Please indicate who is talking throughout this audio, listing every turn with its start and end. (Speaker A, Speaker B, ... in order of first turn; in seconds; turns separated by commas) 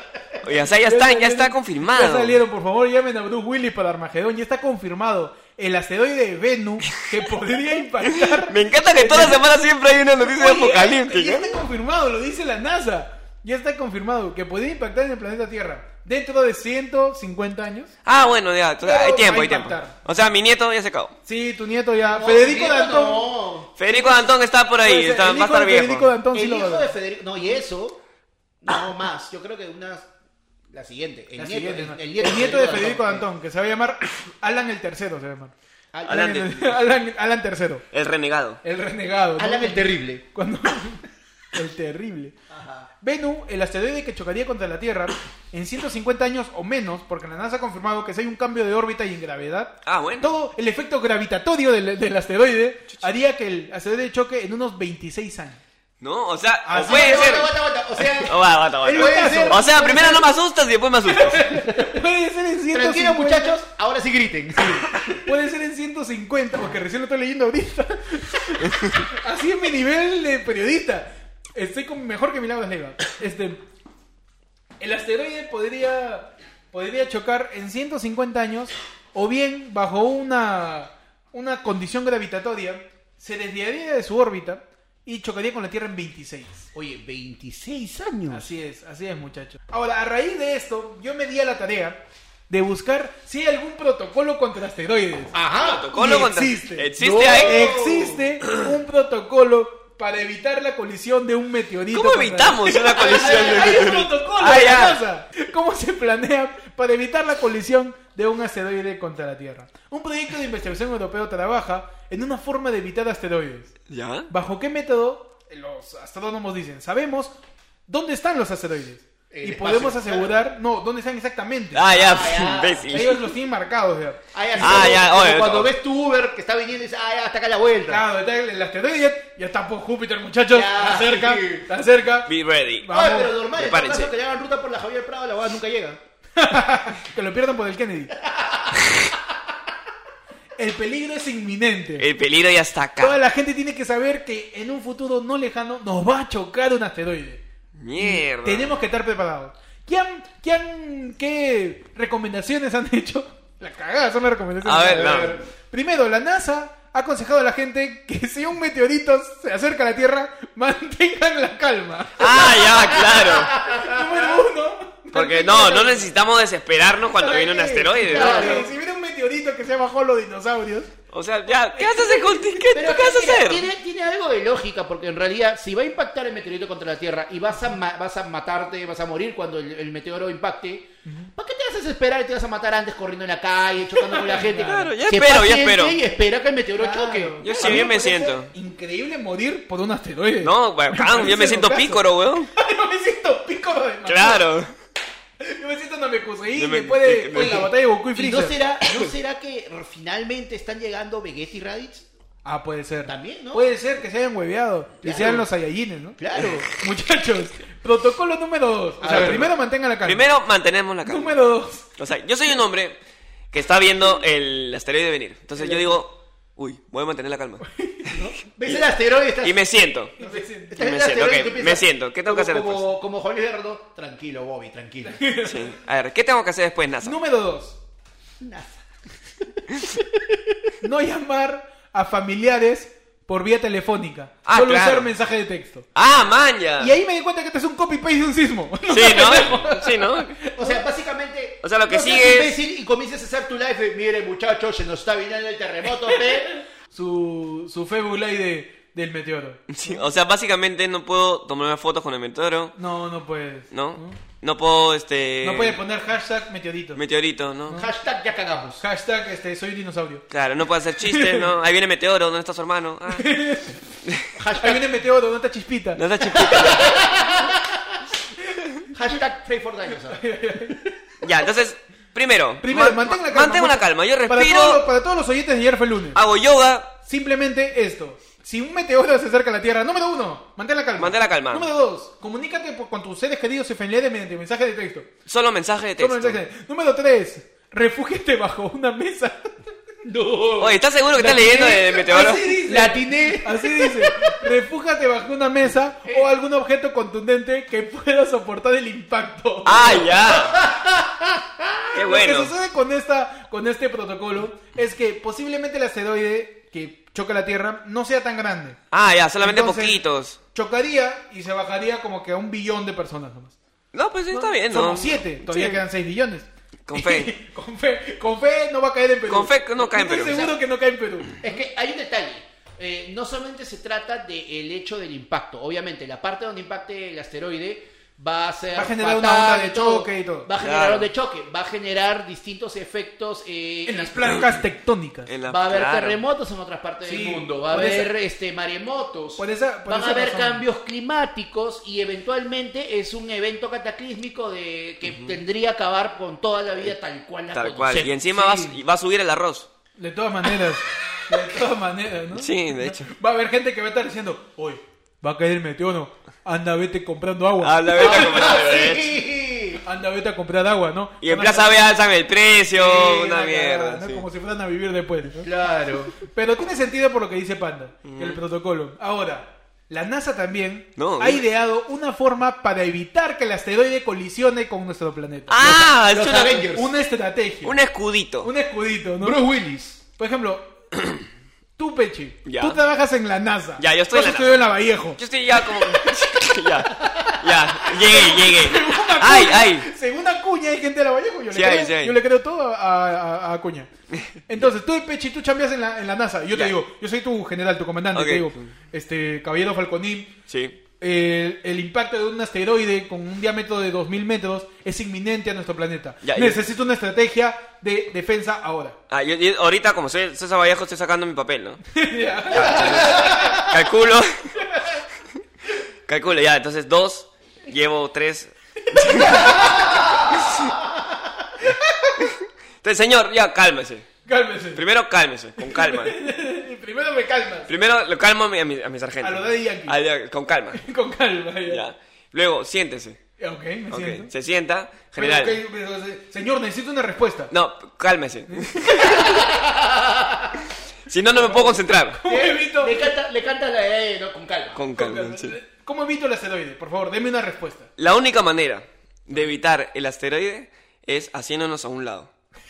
Speaker A: 0.4-2.4, Speaker B: 0.8-9.4, Speaker A: 8.0-11.6, Speaker B: 10.2-17.9, Speaker A: 18.0-21.1, Speaker B: 18.8-19.9, Speaker B: 21.2-23.3, Speaker C: 22.1-23.7, Speaker A: 23.8-26.1, Speaker B: 23.9-24.3, Speaker B: 24.8-26.9, Speaker C: 26.3-28.0, Speaker C: 28.6-30.1, Speaker C: 30.7-33.3, Speaker B: 31.4-35.5, Speaker C: 35.9-36.3, Speaker A: 36.0-36.8, Speaker B: 36.0-37.8, Speaker A: 37.9-38.6, Speaker B: 38.6-42.3, Speaker C: 39.4-40.2, Speaker C: 42.5-42.9, Speaker B: 43.0-55.6, Speaker A: 49.8-50.3, Speaker A: 56.0-57.5, Speaker B: 56.6-57.5, Speaker C: 56.7-60.2, Speaker A: 58.1-61.6, Speaker B: 58.8-60.0, Speaker B: 61.1-63.6, Speaker C: 62.7-65.2, Speaker B: 64.6-73.6, Speaker B: 74.8-86.7, Speaker C: 86.7-88.5, Speaker B: 88.3-95.4, Speaker C: 95.3-95.9, Speaker A: 95.6-97.8, Speaker B: 95.9-113.7, Speaker C: 97.0-98.2, Speaker A: 101.9-105.0, Speaker C: 103.0-103.8, Speaker A: 113.9-114.3, Speaker B: 114.3-117.3, Speaker B: 117.9-122.0, Speaker C: 119.3-120.3, Speaker A: 121.7-123.3, Speaker C: 122.0-123.1, Speaker B: 122.9-125.0, Speaker C: 124.3-128.0, Speaker A: 124.6-125.7, Speaker B: 127.9-133.3, Speaker C: 130.5-131.7, Speaker A: 132.3-133.0, Speaker C: 132.9-136.0, Speaker A: 133.5-134.1, Speaker B: 136.3-138.1, Speaker C: 138.3-138.8, Speaker B: 140.6-142.1, Speaker A: 142.0-143.2, Speaker B: 143.0-147.4, Speaker A: 147.8-148.8, Speaker B: 148.0-163.0, Speaker A: 154.6-155.4, Speaker C: 154.9-155.4, Speaker A: 162.2-163.6, Speaker C: 162.8-164.3, Speaker B: 163.6-166.1, Speaker A: 165.1-168.7, Speaker B: 167.2-170.9, Speaker C: 168.1-168.7, Speaker A: 171.1-173.7, Speaker B: 171.5-172.4, Speaker C: 172.7-187.9, Speaker B: 181.0-181.3, Speaker B: 184.0-184.9, Speaker A: 184.4-186.0, Speaker B: 186.8-194.4, Speaker A: 187.4-188.5, Speaker A: 190.4-192.5, Speaker A: 194.1-194.7, Speaker B: 195.4-198.6, Speaker A: 196.6-197.7, Speaker C: 197.3-202.1, Speaker B: 202.4-210.3, Speaker C: 203.1-203.7, Speaker C: 205.0-205.5, Speaker C: 206.2-206.7, Speaker C: 209.0-209.5, Speaker A: 209.1-209.5, Speaker A: 210.0-211.4, Speaker B: 211.0-211.9, Speaker A: 211.9-213.0, Speaker A: 213.5-217.6, Speaker B: 217.6-218.1, Speaker C: 218.1-219.7, Speaker A: 219.4-220.1, Speaker C: 220.2-225.2, Speaker B: 220.2-220.8, Speaker A: 220.8-222.9, Speaker B: 225.0-225.8, Speaker A: 225.4-227.1, Speaker B: 227.0-227.8, Speaker C: 228.4-228.8, Speaker A: 229.7-230.0, Speaker B: 230.8-235.9, Speaker A: 234.4-235.1, Speaker A: 235.9-236.9, Speaker B: 236.8-240.8, Speaker A: 238.9-240.4, Speaker C: 240.6-246.6, Speaker A: 241.6-242.6, Speaker B: 246.9-250.0, Speaker A: 249.7-252.7, Speaker B: 252.7-254.2, Speaker A: 253.7-255.8, Speaker B: 255.4-257.0, Speaker A: 256.9-257.8, Speaker C: 257.7-258.8, Speaker B: 258.8-260.2, Speaker A: 260.3-263.3, Speaker B: 261.0-261.5, Speaker B: 263.1-263.8, Speaker C: 264.4-264.9, Speaker B: 264.6-266.8, Speaker A: 265.9-266.9, Speaker C: 266.5-267.9, Speaker C: 268.9-270.2, Speaker B: 270.1-271.0, Speaker A: 271.2-274.8, Speaker B: 272.6-276.2, Speaker A: 276.1-276.9, Speaker B: 277.0-285.1, Speaker A: 281.0-281.7, Speaker A: 285.3-286.4, Speaker B: 286.0-289.6, Speaker C: 290.0-294.4, Speaker A: 290.6-292.5, Speaker B: 291.2-300.1, Speaker A: 299.6-300.6, Speaker C: 300.1-301.9, Speaker A: 301.9-302.5, Speaker B: 301.9-308.8, Speaker A: 308.9-310.4, Speaker B: 309.4-310.0, Speaker B: 310.5-313.6, Speaker A: 313.9-315.8, Speaker B: 314.3-321.4, Speaker A: 316.9-317.3, Speaker A: 319.3-320.5, Speaker C: 321.4-334.5, Speaker B: 328.7-330.5, Speaker A: 330.6-331.1, Speaker B: 333.8-335.3, Speaker A: 335.3-336.2, Speaker C: 335.4-348.8, Speaker B: 337.0-338.1, Speaker B: 339.4-340.6, Speaker A: 345.1-345.4, Speaker A: 347.5-349.7, Speaker B: 350.0-358.5, Speaker A: 352.3-353.1, Speaker A: 357.6-359.1, Speaker C: 357.9-359.8, Speaker B: 359.8-361.9, Speaker A: 361.2-364.2, Speaker B: 362.7-365.5, Speaker C: 365.4-366.1, Speaker B: 366.2-375.6, Speaker A: 368.0-368.4, Speaker A: 371.0-371.4, Speaker A: 375.5-376.7, Speaker C: 375.6-376.9, Speaker B: 376.7-377.7, Speaker A: 377.6-378.5, Speaker B: 378.4-379.4, Speaker C: 379.2-380.0, Speaker B: 380.1-380.7, Speaker B: 381.8-386.2, Speaker A: 382.4-382.8, Speaker A: 383.8-389.9, Speaker B: 387.0-393.9, Speaker A: 391.5-392.2, Speaker B: 394.5-400.4, Speaker A: 398.1-398.6, Speaker A: 400.5-400.8, Speaker B: 401.0-409.0, Speaker A: 406.2-406.6, Speaker A: 409.1-411.8, Speaker B: 411.9-413.7, Speaker A: 412.5-414.5, Speaker A: 416.1-420.8, Speaker B: 419.0-420.3, Speaker B: 421.6-422.2, Speaker A: 422.2-424.1, Speaker B: 424.2-424.8, Speaker A: 424.7-426.1, Speaker B: 425.6-427.7, Speaker A: 427.7-430.8, Speaker B: 429.2-429.9, Speaker B: 430.7-431.8, Speaker A: 431.7-433.2, Speaker B: 433.4-434.3, Speaker A: 433.9-435.6, Speaker B: 435.1-437.5, Speaker A: 437.5-439.4, Speaker B: 438.5-439.4, Speaker C: 439.2-440.6, Speaker A: 441.1-442.2, Speaker B: 441.4-443.0, Speaker C: 442.3-444.8, Speaker A: 444.8-445.5, Speaker B: 444.9-447.9, Speaker A: 448.0-452.3